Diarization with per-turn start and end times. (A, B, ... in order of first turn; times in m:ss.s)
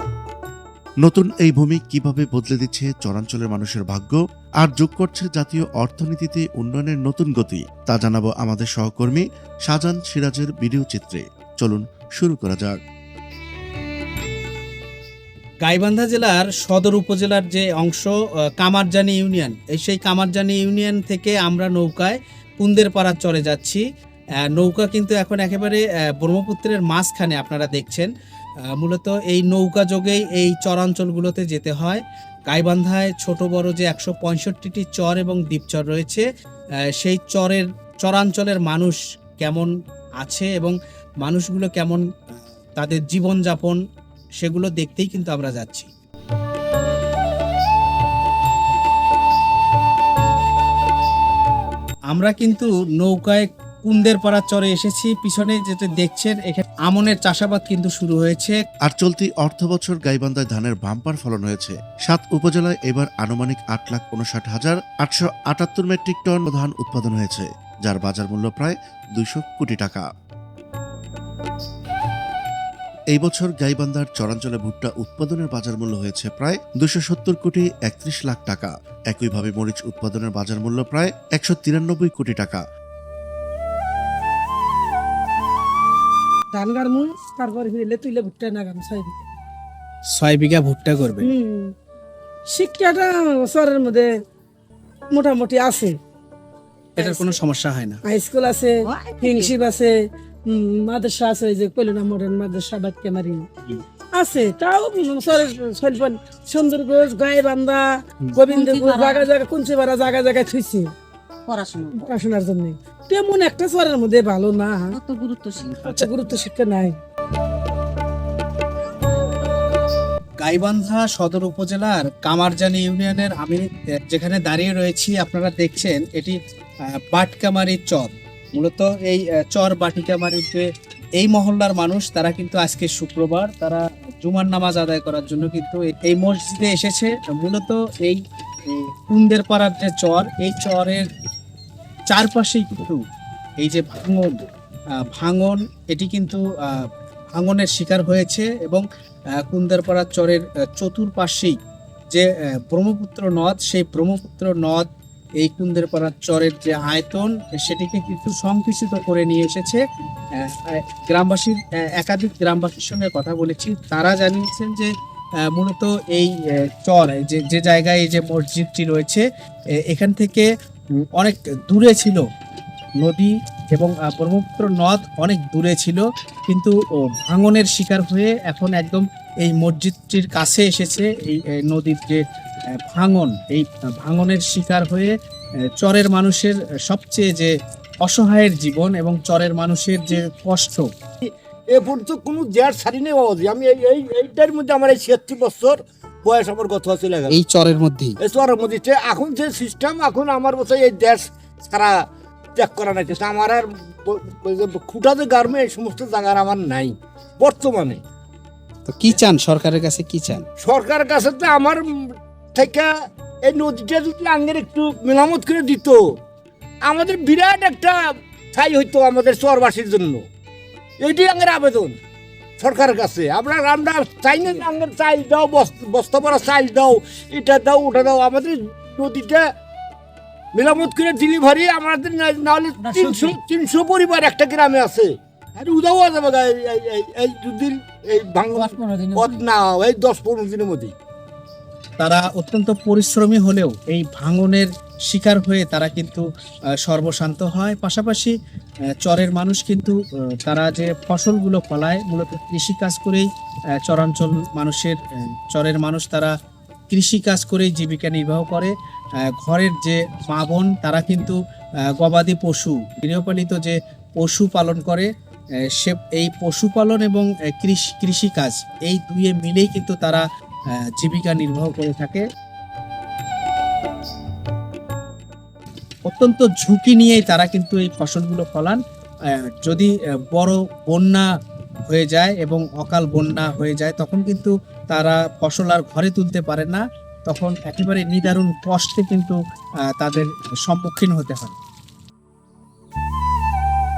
0:01.0-0:12.8 A
0:15.6-0:23.8 B
0:24.5-0:28.1 B
0:28.8-0:36.2 B
0:37.0-0:42.0 B
0:42.8-0:43.8 B
0:44.4-0:45.9 B
0:52.1-0:58.6 B
0:58.9-1:10.1 A
1:13.1-1:22.6 A
1:26.5-1:29.2 C
1:30.2-1:31.3 B
1:31.2-1:31.7 C
1:32.5-1:34.1 C
1:35.1-1:36.0 C
1:37.0-1:38.0 B
1:37.0-1:37.4 C
1:38.0-1:39.9 C
1:38.9-1:39.5 D
1:40.5-1:50.9 C
1:48.4-1:49.3 D
1:51.5-1:52.0 D
1:51.9-1:55.0 C
1:54.9-1:55.7 D
1:55.7-1:56.0 B
1:55.8-1:57.0 C
2:00.4-2:06.4 B
2:07.1-2:10.6 B
2:11.2-2:18.2 B
2:18.7-2:21.1 B
2:22.1-2:23.0 B
2:23.6-2:24.4 B
2:25.1-2:28.8 B
2:29.4-2:31.6 B
2:32.1-2:34.9 B
2:35.4-2:39.8 B
2:40.4-2:44.9 B
2:45.5-2:49.2 B
2:49.8-2:50.5 B
2:51.2-2:52.2 B
2:53.0-3:02.2 B
3:02.8-3:05.1 B
3:05.8-3:07.5 B
3:08.0-3:10.9 B
3:11.2-3:17.4 E
3:17.3-3:18.2 B
3:18.2-3:22.0 E
3:22.6-3:28.0 E
3:28.9-3:30.4 B
3:30.6-3:32.9 E
3:33.4-3:36.0 E
3:36.8-3:38.0 E
3:38.5-3:40.2 E
3:41.0-3:42.0 E
3:42.6-3:49.4 E
3:50.5-4:00.9 E
3:52.8-3:53.3 D
3:58.6-3:59.4 D
4:02.0-4:06.2 B
4:06.8-4:08.3 B
4:09.0-4:13.2 B
4:13.8-4:16.3 B
4:16.9-4:18.7 B
4:19.4-4:21.4 B
4:22.0-4:25.1 B
4:25.8-4:30.2 B
4:31.0-4:32.2 B
4:36.1-4:38.8 B
4:39.6-4:41.2 B
4:41.9-4:49.4 B
4:49.9-4:51.6 B